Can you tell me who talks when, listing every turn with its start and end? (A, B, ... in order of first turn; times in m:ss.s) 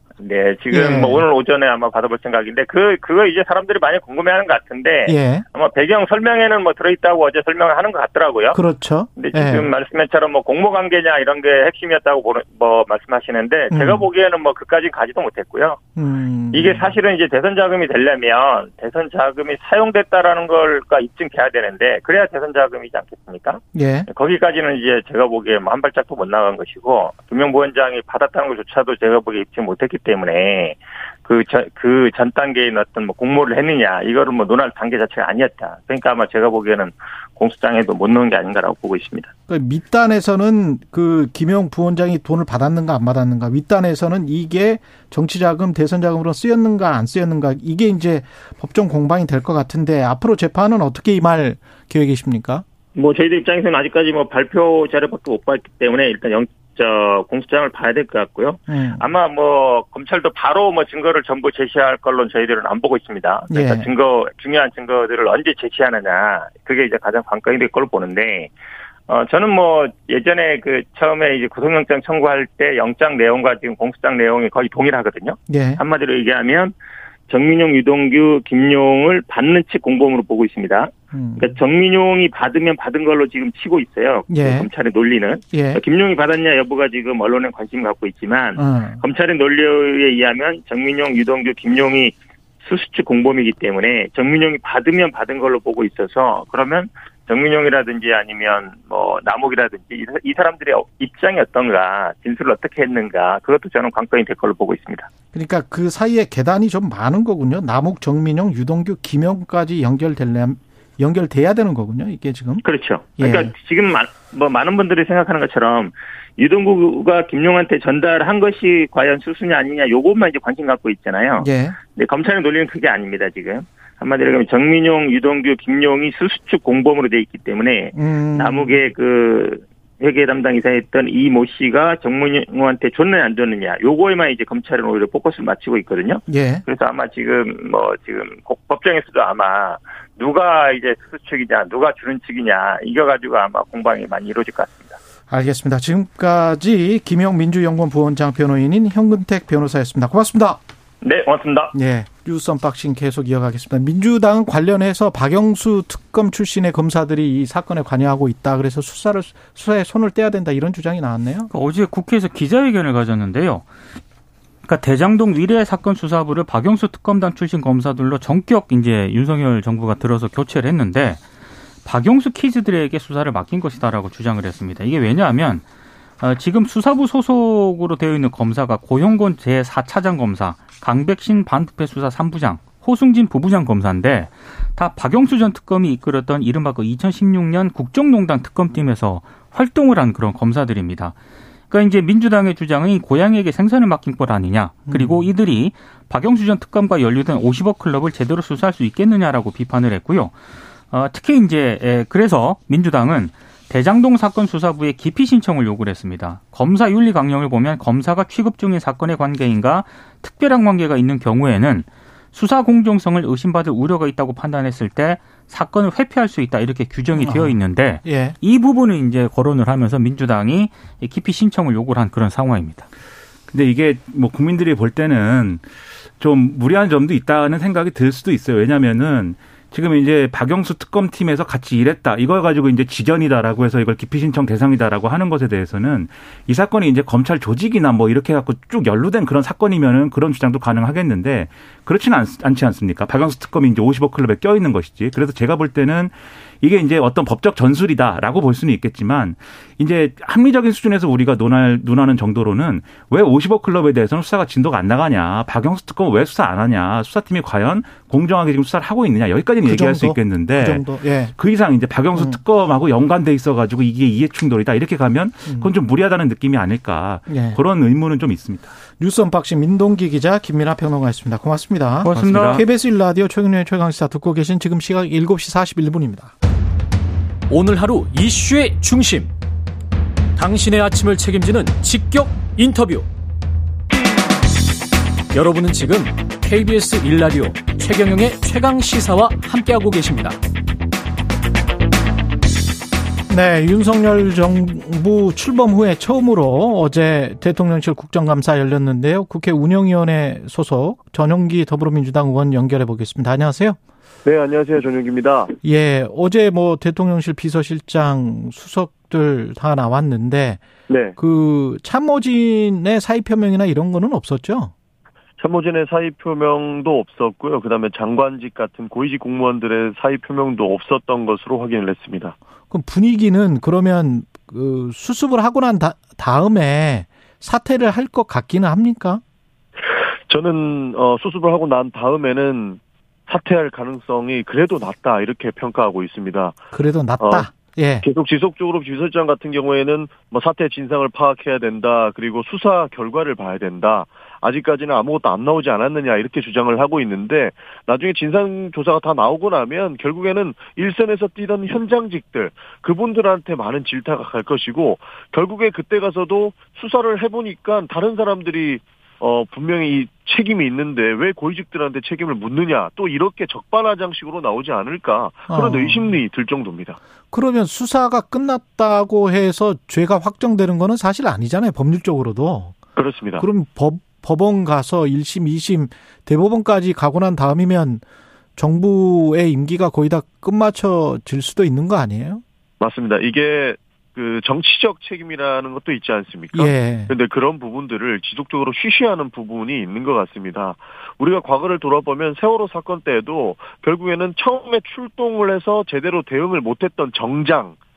0:00.2-0:08.6 A
0:00.7-0:01.2 B
0:05.1-0:05.4 B
0:08.5-0:09.7 B
0:09.2-0:15.8 A
0:13.7-0:14.0 B
0:16.0-0:16.9 B
0:16.5-0:39.3 A
0:23.8-0:24.1 B
0:39.5-0:52.6 B
0:53.0-1:08.5 A
0:58.7-0:59.0 B
1:03.5-1:03.9 B
1:09.1-1:16.7 A
1:15.5-1:15.8 B
1:17.3-1:45.1 A
1:21.1-1:21.6 B
1:24.3-1:24.7 B
1:25.5-1:25.8 B
1:28.6-1:29.0 B
1:45.3-1:52.6 B
1:52.6-2:24.9 A
1:53.2-1:53.5 B
2:01.4-2:01.8 B
2:08.0-2:08.8 B
2:16.3-2:16.6 B
2:25.3-2:30.6 B
2:31.0-2:31.7 A
2:31.7-2:41.5 B
2:41.5-2:43.7 C
2:44.6-2:51.2 C
2:51.8-2:55.6 C
2:56.2-3:11.2 C
3:11.7-3:20.4 C
3:14.9-3:15.3 B
3:20.9-3:42.9 C
3:37.1-3:38.4 B
3:43.5-3:45.6 D
3:46.2-4:28.8 D
4:19.6-4:21.3 B
4:27.3-4:27.6 B
4:29.0-4:36.3 B
4:32.0-4:32.6 C
4:32.0-4:32.6 D
4:37.5-4:39.3 E
4:40.4-4:43.1 E
4:45.3-4:50.4 E
4:53.3-5:03.8 B
5:04.2-5:05.5 F
5:05.6-5:10.6 B
5:10.9-5:11.2 F
5:11.2-5:14.7 B
5:15.4-5:22.4 F
5:22.7-5:29.2 B
5:30.3-5:36.6 F
5:36.7-5:38.1 B
5:37.2-5:37.5 F
5:38.0-6:07.0 F
6:05.5-6:06.2 B
6:07.3-6:12.8 B
6:13.0-6:13.4 F
6:13.4-6:18.0 B
6:18.6-6:22.4 B
6:22.8-6:37.8 F
6:26.5-6:27.1 B